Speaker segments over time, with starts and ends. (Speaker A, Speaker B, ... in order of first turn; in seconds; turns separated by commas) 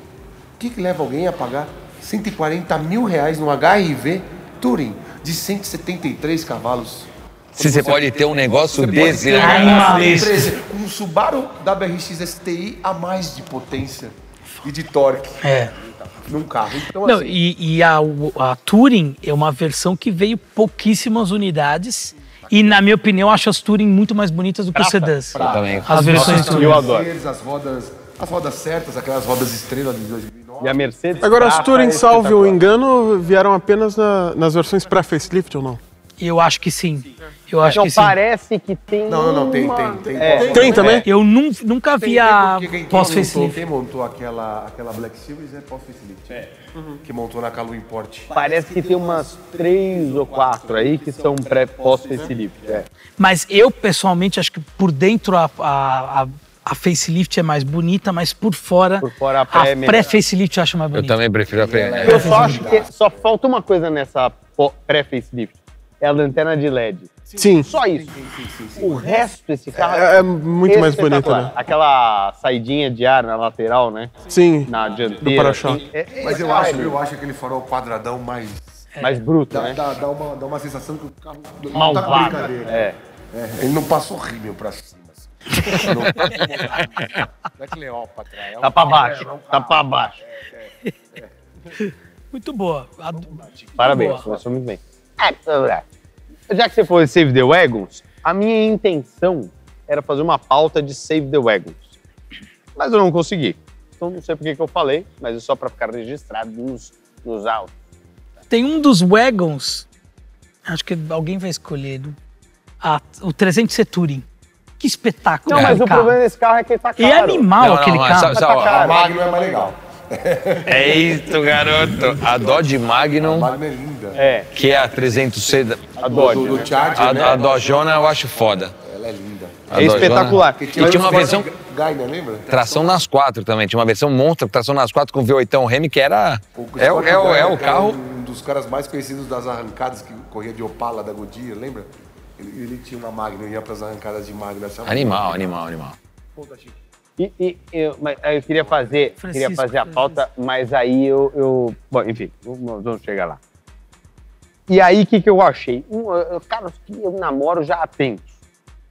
Speaker A: 0.6-17.3, Speaker B: 7.5-10.2, Speaker C: 9.3-10.5, Speaker C: 15.4-15.7, Speaker C: 17.0-26.9, Speaker A: 22.5-22.8, Speaker D: 24.8-25.6, Speaker A: 25.4-30.9, Speaker B: 25.4-26.6, Speaker D: 26.5-27.1, Speaker D: 30.6-32.6, Speaker E: 31.2-35.8, Speaker C: 36.2-38.2, Speaker D: 37.7-41.0, Speaker A: 39.0-41.1, Speaker E: 40.4-41.0, Speaker C: 41.0-43.6, Speaker A: 42.0-52.8, Speaker D: 48.3-52.9, Speaker C: 53.2-61.2, Speaker D: 59.0-60.1, Speaker B: 60.9-62.5, Speaker A: 61.5-62.9, Speaker C: 62.0-62.6, Speaker D: 62.0-67.1, Speaker A: 67.3-69.2, Speaker E: 67.4-67.7, Speaker D: 67.6-68.2, Speaker D: 68.8-74.1, Speaker E: 69.8-71.5, Speaker E: 74.3-75.8, Speaker D: 74.7-77.0, Speaker A: 76.2-78.8, Speaker C: 78.9-79.2, Speaker D: 79.0-79.8, Speaker A: 79.5-91.3, Speaker D: 81.7-83.0, Speaker B: 85.7-86.3, Speaker D: 88.6-90.2, Speaker C: 91.8-94.2, Speaker A: 93.2-94.4, Speaker D: 93.8-95.8, Speaker D: 96.5-101.9, Speaker D: 102.8-107.7, Speaker C: 108.5-109.8, Speaker C: 110.7-112.2, Speaker C: 112.8-114.2, Speaker C: 114.8-116.2, Speaker D: 115.5-117.5, Speaker B: 115.5-115.8, Speaker C: 117.0-118.4, Speaker B: 117.6-118.9, Speaker D: 118.3-119.7, Speaker A: 118.5-121.2, Speaker B: 120.7-123.5, Speaker A: 121.9-124.2, Speaker D: 124.2-124.5, Speaker B: 124.5-126.0, Speaker A: 125.9-133.0, Speaker D: 126.0-126.8, Speaker B: 126.9-128.7, Speaker B: 129.7-131.5, Speaker D: 129.7-131.4, Speaker B: 132.5-138.0, Speaker A: 136.5-145.6, Speaker B: 144.8-146.0, Speaker A: 146.3-146.8, Speaker D: 147.2-153.4, Speaker C: 149.2-150.2, Speaker D: 154.7-158.3